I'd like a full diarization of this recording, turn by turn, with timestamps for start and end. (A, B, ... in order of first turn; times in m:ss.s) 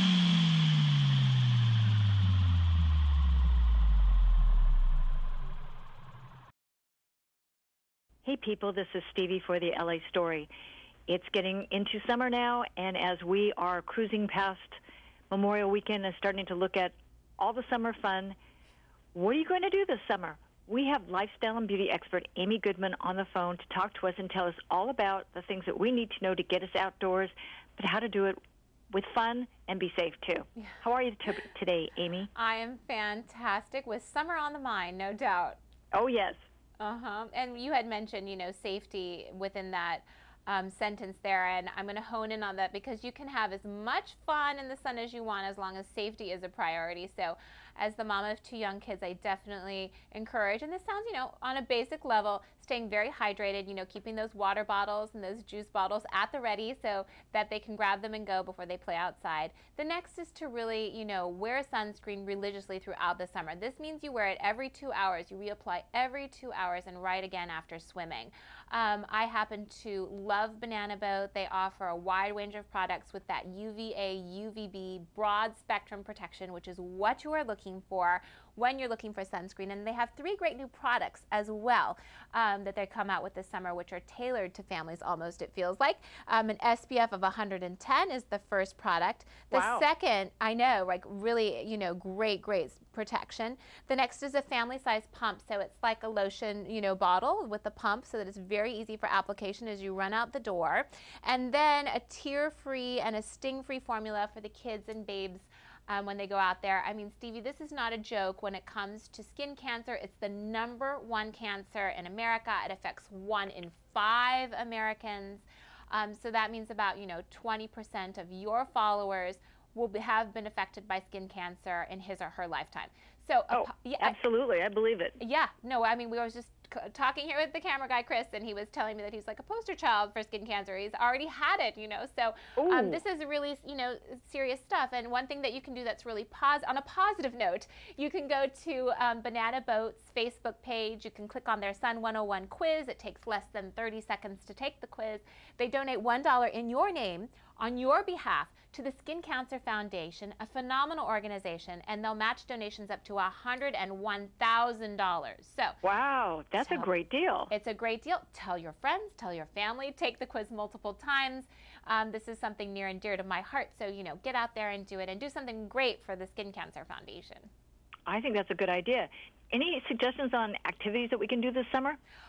0:08.2-0:10.5 A
0:11.1-0:14.8 A
0:15.3-0:18.4 A
0:19.1-0:28.4 A
0:28.9-0:32.3 A
0:32.4-0:35.6 B
0:35.9-0:36.4 A
0:36.8-2:04.2 B
1:29.5-1:29.9 A
2:03.5-2:05.2 A
2:05.2-2:35.8 B
2:12.6-2:13.0 A
2:35.8-2:37.5 A
2:36.6-2:36.9 B
2:37.5-2:47.5 B
2:48.1-2:52.0 A